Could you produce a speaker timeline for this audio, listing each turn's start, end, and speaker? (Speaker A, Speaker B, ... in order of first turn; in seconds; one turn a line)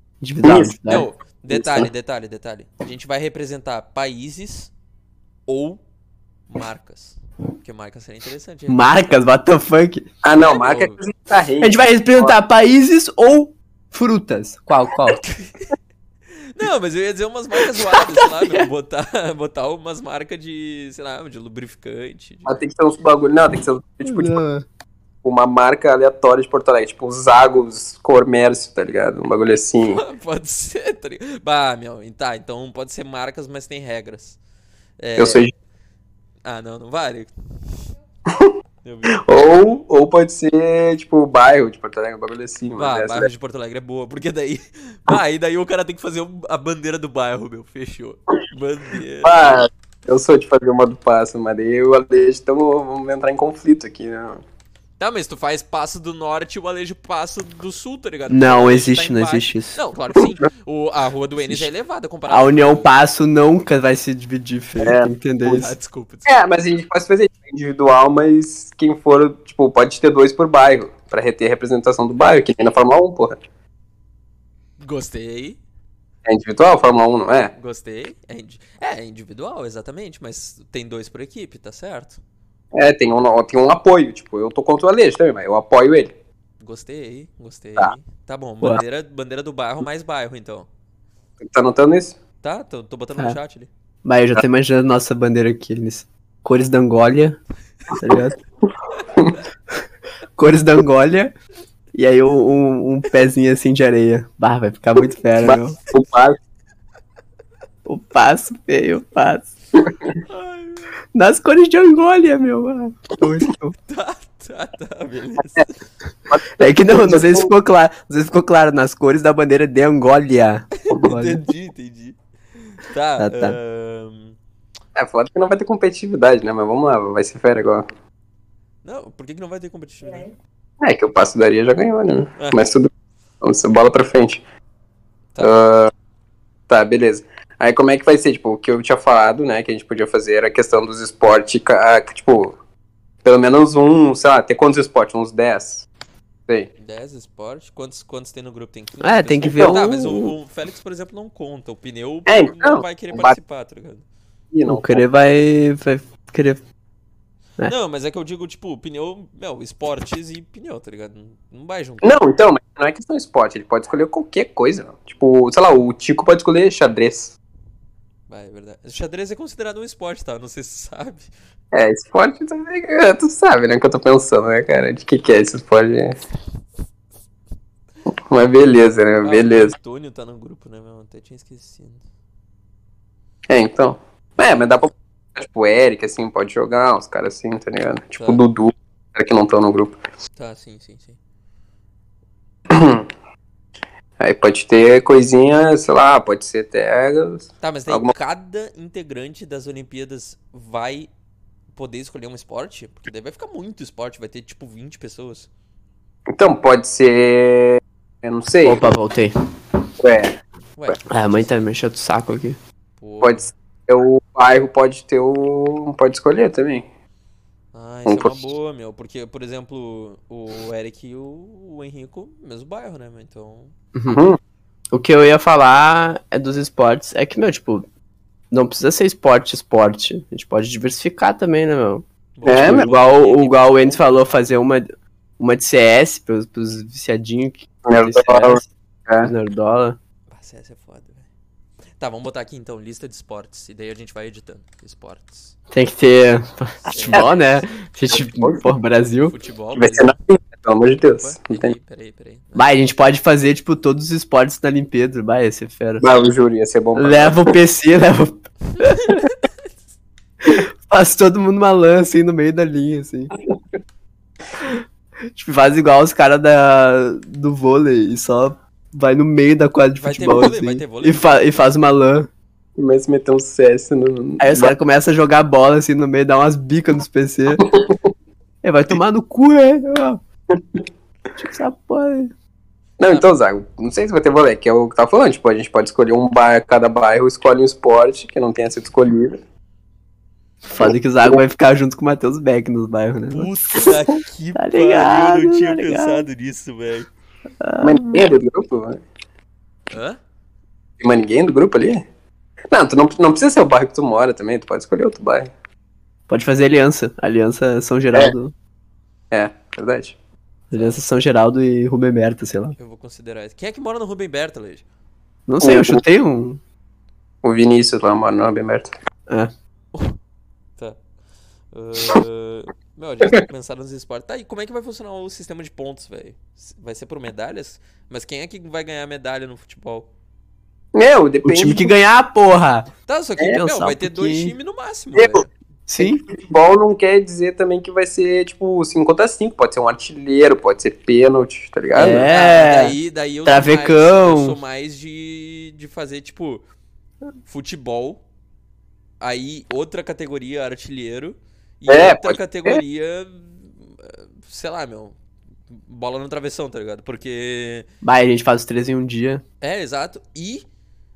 Speaker A: 0.2-1.1
Speaker B: 0.4-1.9
Speaker C: 0.9-4.7
Speaker C: 5.5-5.8
Speaker C: 6.5-8.9
Speaker A: 8.7-10.1
Speaker B: 10.2-12.4
Speaker C: 10.4-11.0
Speaker A: 11.6-15.2
Speaker C: 15.2-15.6
Speaker C: 16.5-22.6
Speaker A: 17.8-18.7
Speaker B: 22.4-24.4
Speaker A: 24.0-24.6
Speaker B: 25.2-30.0
Speaker C: 29.9-34.4
Speaker C: 35.0-35.4
Speaker B: 35.2-35.5
Speaker C: 36.4-37.3
Speaker B: 38.3-38.5
Speaker C: 38.8-39.2
Speaker B: 39.2-43.3
Speaker C: 42.8-49.6
Speaker B: 49.2-54.4
Speaker C: 55.0-62.9
Speaker A: 58.3-59.8
Speaker A: 62.3-65.7
Speaker B: 64.8-65.6
Speaker C: 65.5-66.4
Speaker B: 66.2-73.3
Speaker C: 74.8-75.6
Speaker B: 76.2-77.5
Speaker C: 77.5-82.2
Speaker B: 82.7-86.1
Speaker C: 86.6-90.7
Speaker B: 91.5-92.2
Speaker C: 92.4-93.7
Speaker A: 94.0-97.4
Speaker A: 98.0-98.4
Speaker B: 99.1-99.4
Speaker A: 100.4-101.3
Speaker A: 101.9-105.8
Speaker B: 105.4-106.4
Speaker A: 107.8-109.5
Speaker C: 110.3-110.9
Speaker A: 111.1-113.7
Speaker C: 113.9-115.8
Speaker B: 116.3-117.5
Speaker A: 116.6-121.4
Speaker C: 120.8-124.4
Speaker A: 123.2-123.6
Speaker B: 125.0-127.9
Speaker C: 128.8-130.3
Speaker B: 130.8-132.9
Speaker B: 133.4-134.4
Speaker B: 135.4-135.9
Speaker B: 136.7-142.6
Speaker B: 143.2-145.9
Speaker C: 146.8-154.0
Speaker A: 149.0-150.3
Speaker B: 149.5-149.8
Speaker B: 152.3-153.3
Speaker B: 154.5-155.0
Speaker A: 154.7-156.6
Speaker C: 157.6-162.2
Speaker B: 162.0-167.3
Speaker C: 168.3-171.3
Speaker B: 171.7-176.2
Speaker B: 178.3-179.7
Speaker C: 179.2-182.0
Speaker B: 183.5-190.0
Speaker C: 188.2-188.4
Speaker C: 190.4-191.2
Speaker B: 192.7-193.1
Speaker B: 194.2-198.1
Speaker C: 197.6-201.1
Speaker C: 201.7-205.5
Speaker B: 206.3-208.9
Speaker A: 208.6-209.3
Speaker B: 210.0-210.4
Speaker C: 210.8-211.5
Speaker A: 211.1-212.6
Speaker C: 213.0-213.5
Speaker B: 213.2-216.8
Speaker C: 217.7-223.7
Speaker B: 218.1-218.5
Speaker A: 223.9-224.2
Speaker B: 224.1-224.4
Speaker A: 224.9-227.8
Speaker A: 228.5-234.9
Speaker C: 232.3-234.5
Speaker B: 232.4-232.9
Speaker A: 235.4-238.7
Speaker B: 237.8-239.3
Speaker A: 239.2-240.0
Speaker C: 240.3-241.2
Speaker C: 242.0-245.5
Speaker A: 245.7-249.3
Speaker C: 246.8-247.6
Speaker B: 248.1-248.6
Speaker C: 249.2-250.2
Speaker B: 249.7-251.8
Speaker C: 251.2-252.7
Speaker A: 252.6-256.1
Speaker B: 256.0-257.6
Speaker A: 256.9-259.2
Speaker C: 258.8-259.4
Speaker A: 260.4-263.3
Speaker A: 265.3-272.3
Speaker C: 270.0-271.5
Speaker B: 272.8-274.7
Speaker A: 274.4-277.6
Speaker B: 277.6-277.9
Speaker A: 278.6-280.2
Speaker B: 280.5-280.8
Speaker A: 281.4-282.3
Speaker B: 283.0-289.4
Speaker A: 290.6-293.5
Speaker C: 293.3-297.1
Speaker A: 294.6-296.2
Speaker A: 297.6-298.3
Speaker B: 297.8-299.0
Speaker C: 299.9-300.2
Speaker B: 301.0-302.0
Speaker B: 302.7-305.5
Speaker A: 306.3-308.5
Speaker B: 309.3-310.1
Speaker A: 310.7-312.8
Speaker C: 310.7-311.0
Speaker C: 312.8-314.8
Speaker A: 315.5-316.6
Speaker B: 315.6-316.0
Speaker B: 317.4-318.9
Speaker C: 321.7-330.1
Speaker B: 330.9-331.9
Speaker A: 331.4-332.9
Speaker C: 333.1-335.5
Speaker A: 333.4-334.5
Speaker A: 335.9-336.2
Speaker B: 336.0-342.3
Speaker A: 341.9-344.6
Speaker C: 342.0-346.6
Speaker C: 347.4-348.2
Speaker C: 349.2-355.1
Speaker B: 351.9-352.8
Speaker C: 355.7-357.9
Speaker A: 358.0-359.4
Speaker C: 359.6-360.6